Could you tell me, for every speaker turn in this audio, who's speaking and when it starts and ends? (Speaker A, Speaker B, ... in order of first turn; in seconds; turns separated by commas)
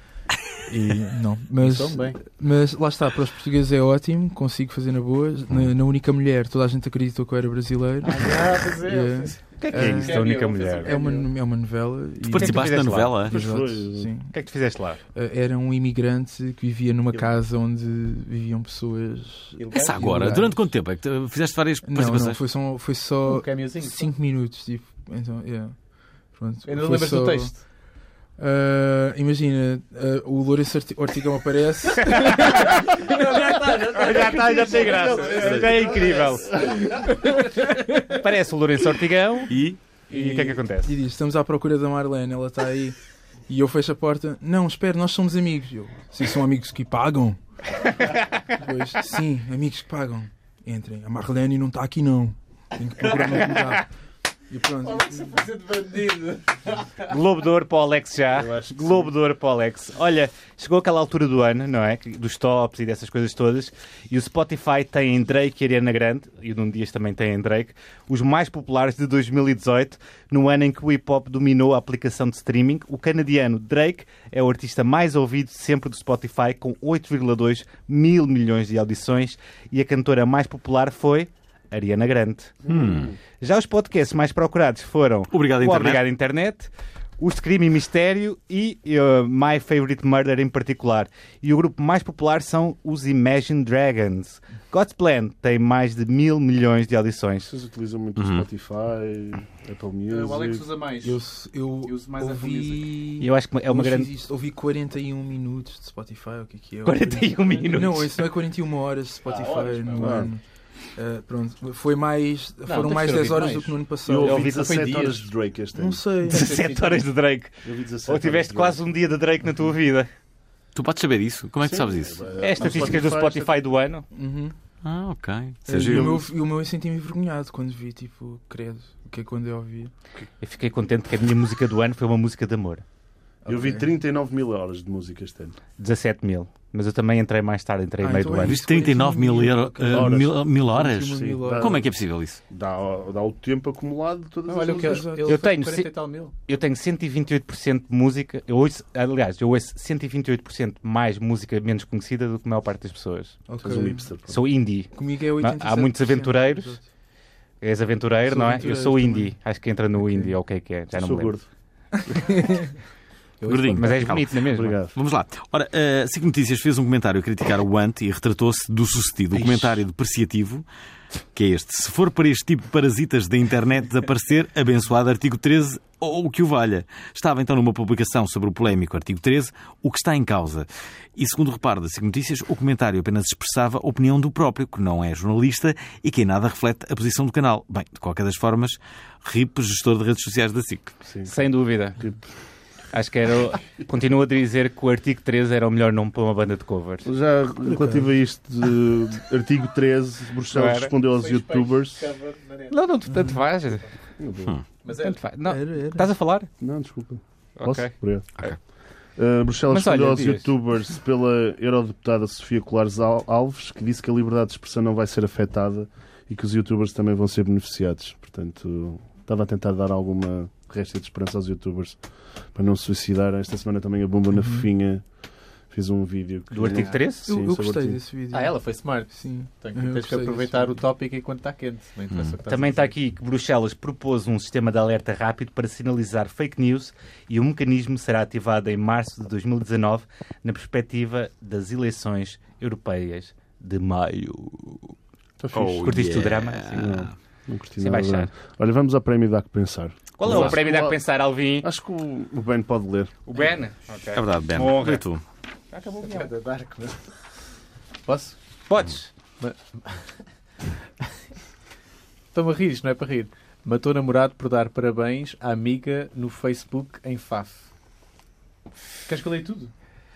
Speaker A: 0.7-10.2, Speaker B: 1.6-2.2, Speaker B: 8.0-11.3, Speaker C: 9.6-10.9, Speaker A: 10.8-14.3, Speaker D: 12.2-13.3, Speaker C: 12.4-13.2, Speaker E: 13.2-14.1, Speaker C: 14.3-15.0, Speaker A: 15.2-20.6, Speaker B: 19.6-20.5, Speaker D: 19.7-22.4, Speaker A: 21.9-27.6, Speaker B: 23.2-24.1, Speaker B: 26.6-27.6, Speaker A: 28.4-32.9, Speaker C: 32.3-39.5, Speaker B: 32.9-36.9, Speaker E: 35.3-35.9, Speaker A: 37.6-37.9, Speaker D: 39.5-39.8, Speaker C: 40.1-40.9, Speaker A: 40.1-43.0, Speaker A: 43.5-47.4, Speaker A: 48.5-53.9, Speaker A: 54.5-55.4, Speaker B: 54.8-57.1, Speaker C: 57.1-82.6, Speaker E: 58.3-59.1, Speaker E: 82.6-83.2, Speaker D: 82.7-83.1, Speaker C: 83.3-97.5, Speaker D: 85.3-86.0, Speaker E: 97.5-100.7, Speaker D: 98.2-98.5, Speaker B: 100.1-101.2, Speaker A: 101.0-110.4, Speaker B: 101.8-103.1, Speaker C: 103.2-104.1, Speaker C: 106.8-108.2, Speaker B: 109.3-110.3, Speaker E: 110.0-110.3, Speaker A: 110.9-114.5, Speaker B: 112.7-115.3, Speaker E: 114.1-116.0, Speaker C: 114.3-114.7, Speaker A: 115.8-116.5, Speaker B: 116.3-117.1, Speaker C: 116.3-120.1, Speaker E: 117.6-118.8, Speaker D: 120.8-122.2, Speaker E: 121.6-123.6, Speaker C: 122.4-124.1, Speaker A: 124.1-124.5, Speaker D: 124.8-126.2, Speaker A: 125.7-129.9, Speaker E: 125.8-126.3, Speaker C: 130.4-132.8, Speaker A: 133.4-133.9, Speaker E: 133.5-135.6, Speaker C: 135.8-138.6, Speaker A: 138.0-141.8, Speaker D: 138.4-142.4, Speaker E: 139.9-141.9, Speaker E: 142.5-145.1, Speaker B: 144.5-146.3, Speaker A: 144.7-145.4, Speaker C: 145.3-153.4, Speaker A: 153.5-154.1, Speaker E: 153.6-154.5, Speaker C: 154.3-156.8, Speaker A: 154.9-156.9, Speaker C: 157.6-161.4, Speaker A: 158.3-159.3, Speaker A: 160.0-160.3, Speaker E: 160.9-161.5, Speaker A: 162.0-162.8, Speaker A: 163.4-163.9, Speaker D: 163.5-164.4, Speaker C: 163.8-164.8, Speaker E: 164.1-165.0, Speaker D: 164.9-170.7, Speaker E: 169.4-169.8, Speaker D: 171.3-190.9, Speaker E: 191.1-191.4, Speaker C: 191.3-192.1, Speaker E: 191.9-192.3, Speaker C: 192.9-197.1, Speaker E: 197.0-202.1, Speaker C: 200.5-200.9, Speaker B: 201.1-202.9, Speaker C: 202.7-203.9, Speaker E: 204.2-204.6, Speaker B: 204.8-205.2, Speaker C: 205.0-206.5, Speaker A: 205.5-206.1, Speaker E: 206.6-208.7, Speaker C: 207.6-208.6, Speaker E: 209.2-222.0, Speaker C: 209.7-210.5, Speaker E: 222.5-225.1, Speaker A: 224.4-224.7, Speaker E: 225.7-228.0, Speaker C: 226.5-227.3, Speaker B: 226.6-227.0, Speaker A: 227.2-230.8, Speaker B: 228.3-232.9, Speaker C: 232.5-245.0, Speaker E: 245.4-246.1, Speaker D: 245.5-247.1, Speaker C: 245.8-246.9, Speaker E: 246.7-251.0, Speaker C: 247.8-248.3, Speaker C: 250.2-251.7, Speaker D: 250.2-250.6, Speaker E: 251.6-253.2, Speaker C: 253.3-255.0, Speaker D: 254.1-255.2, Speaker C: 255.7-256.3, Speaker B: 256.0-257.0, Speaker B: 258.1-258.4, Speaker C: 258.7-259.1, Speaker B: 259.4-260.2, Speaker B: 262.3-267.7, Speaker B: 269.1-269.7